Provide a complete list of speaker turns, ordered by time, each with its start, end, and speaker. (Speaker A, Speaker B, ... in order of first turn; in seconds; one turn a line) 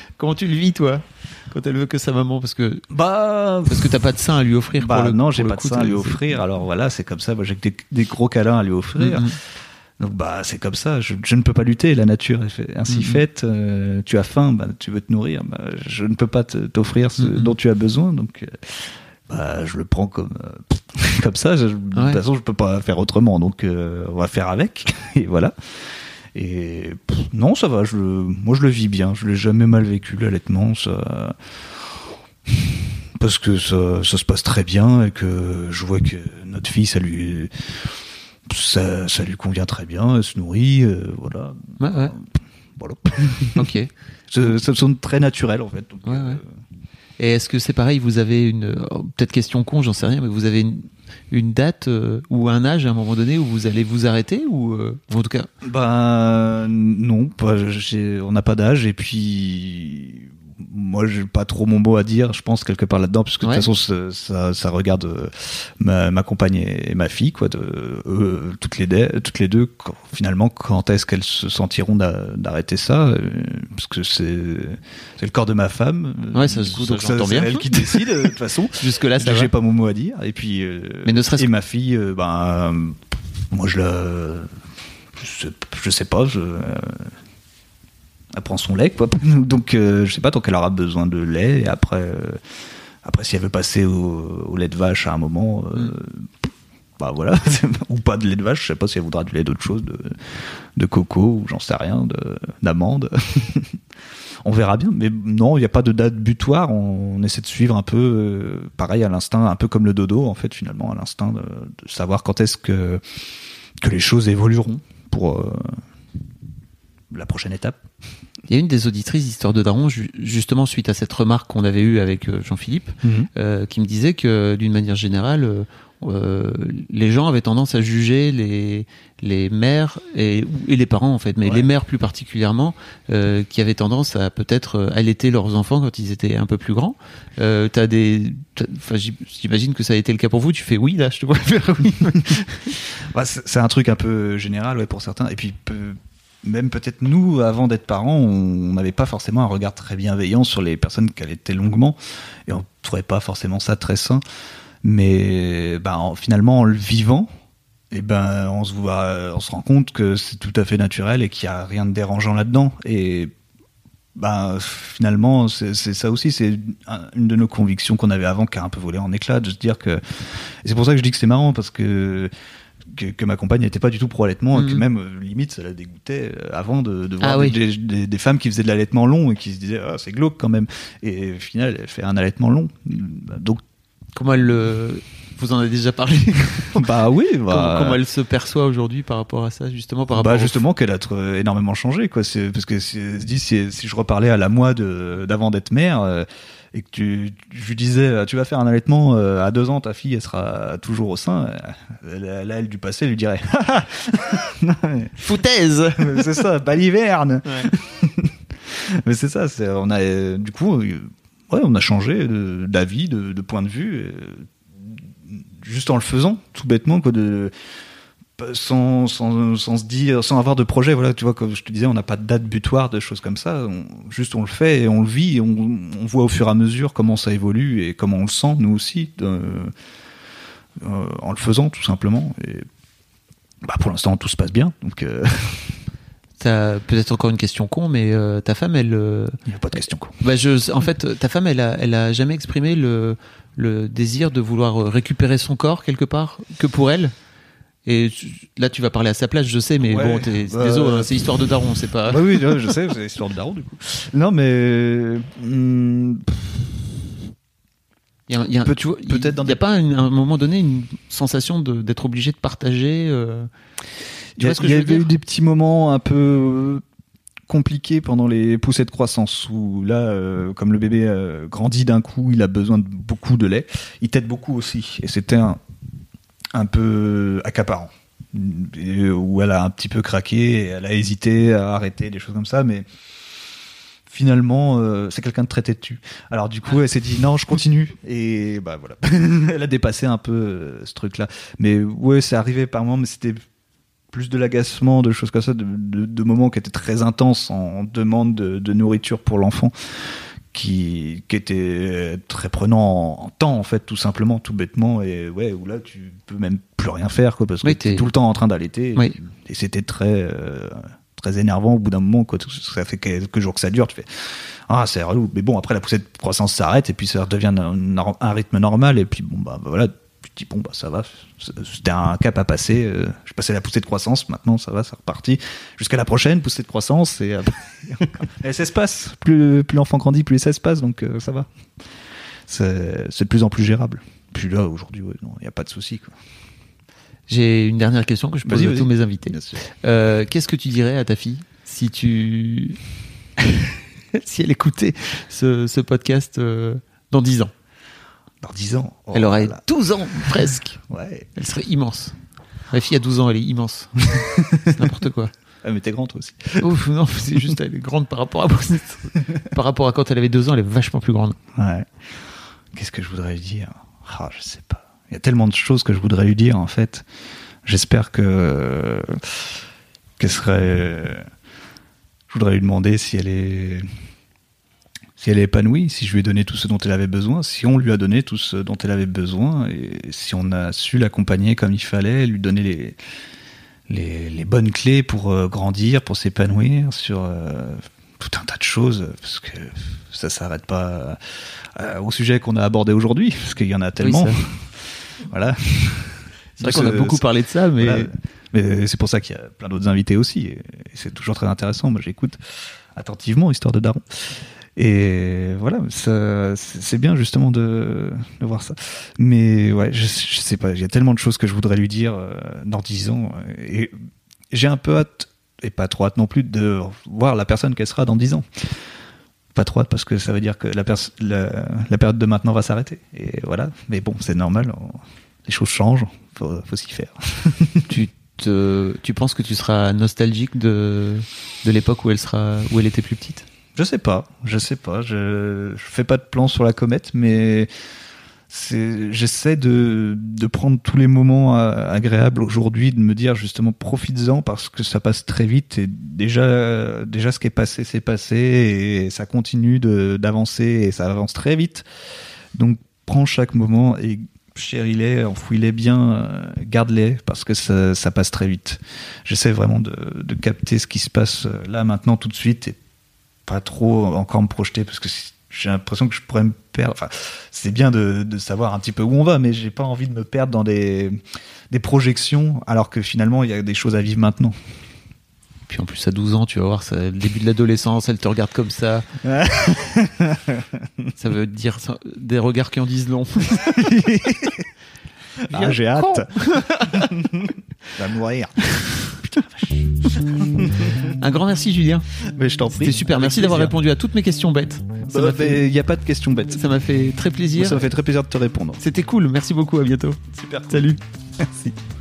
Speaker A: 0.2-2.8
Speaker B: 2.9-4.0
Speaker A: 3.7-6.2
Speaker B: 4.8-9.3
Speaker A: 9.0-9.4
Speaker B: 10.0-25.5
Speaker A: 12.9-13.2
Speaker A: 17.2-17.5
Speaker A: 21.9-22.2
Speaker B: 26.3-31.4
Speaker B: 32.5-37.9
Speaker B: 38.5-43.7
Speaker A: 41.8-42.1
Speaker A: 43.5-43.9
Speaker B: 44.3-46.5
Speaker A: 46.0-46.4
Speaker A: 47.2-55.5
Speaker B: 55.6-83.0
Speaker A: 63.4-63.7
Speaker A: 76.3-78.3
Speaker A: 78.8-79.5
Speaker A: 81.0-81.5
Speaker B: 83.5-84.5
Speaker B: 85.2-87.1
Speaker B: 88.3-92.4
Speaker B: 93.0-103.8
Speaker B: 104.4-113.0
Speaker B: 113.8-115.8
Speaker B: 117.1-117.8
Speaker A: 118.5-142.7
Speaker B: 123.0-123.3
Speaker B: 142.8-154.2
Speaker B: 154.8-157.3
Speaker B: 157.9-163.3
Speaker B: 164.2-172.3
Speaker B: 172.8-183.6
Speaker A: 174.5-174.8
Speaker A: 177.2-177.6
Speaker A: 184.1-186.9
Speaker B: 186.7-188.0
Speaker A: 187.5-190.6
Speaker B: 190.1-205.2
Speaker A: 205.2-206.4
Speaker B: 205.9-217.5
Speaker A: 207.4-207.7
Speaker B: 218.4-229.7
Speaker B: 230.8-232.7
Speaker B: 233.6-235.8
Speaker A: 236.4-239.4
Speaker B: 239.4-240.2
Speaker A: 240.2-247.1
Speaker A: 247.8-252.7
Speaker B: 249.8-251.3
Speaker B: 252.1-256.9
Speaker A: 258.3-263.5
Speaker B: 258.6-259.6
Speaker B: 264.4-266.8
Speaker A: 264.4-265.1
Speaker B: 267.5-275.6
Speaker B: 276.5-282.9
Speaker B: 284.1-293.4
Speaker B: 294.1-331.5
Speaker A: 307.6-308.1
Speaker B: 332.5-336.1
Speaker A: 337.3-342.8
Speaker B: 338.4-339.6
Speaker A: 344.1-347.5
Speaker B: 348.4-349.6
Speaker A: 349.1-350.8
Speaker B: 350.9-351.3
Speaker A: 351.3-352.1
Speaker A: 352.7-355.3
Speaker B: 354.1-354.7
Speaker B: 355.6-356.7
Speaker A: 356.6-361.4
Speaker B: 361.5-361.9
Speaker B: 362.7-367.0
Speaker B: 367.6-369.5
Speaker B: 370.2-371.2
Speaker B: 372.3-373.9
Speaker B: 375.2-383.0
Speaker B: 383.9-397.2
Speaker A: 394.0-394.4
Speaker A: 396.6-398.1
Speaker B: 397.8-402.4
Speaker B: 402.9-413.9
Speaker B: 414.5-418.7
Speaker B: 419.5-427.9
Speaker A: 427.9-433.4
Speaker B: 433.7-437.7
Speaker B: 438.5-451.9
Speaker B: 452.5-462.8
Speaker B: 463.5-474.6
Speaker A: 475.7-479.1
Speaker B: 479.2-481.1
Speaker A: 481.2-483.7
Speaker B: 483.6-484.6
Speaker B: 485.5-491.1
Speaker A: 485.5-487.1
Speaker A: 491.2-492.1
Speaker B: 492.2-493.8
Speaker A: 492.7-495.6
Speaker B: 495.1-496.6
Speaker A: 496.5-497.8
Speaker B: 497.5-498.8
Speaker A: 498.8-501.0
Speaker B: 500.3-501.7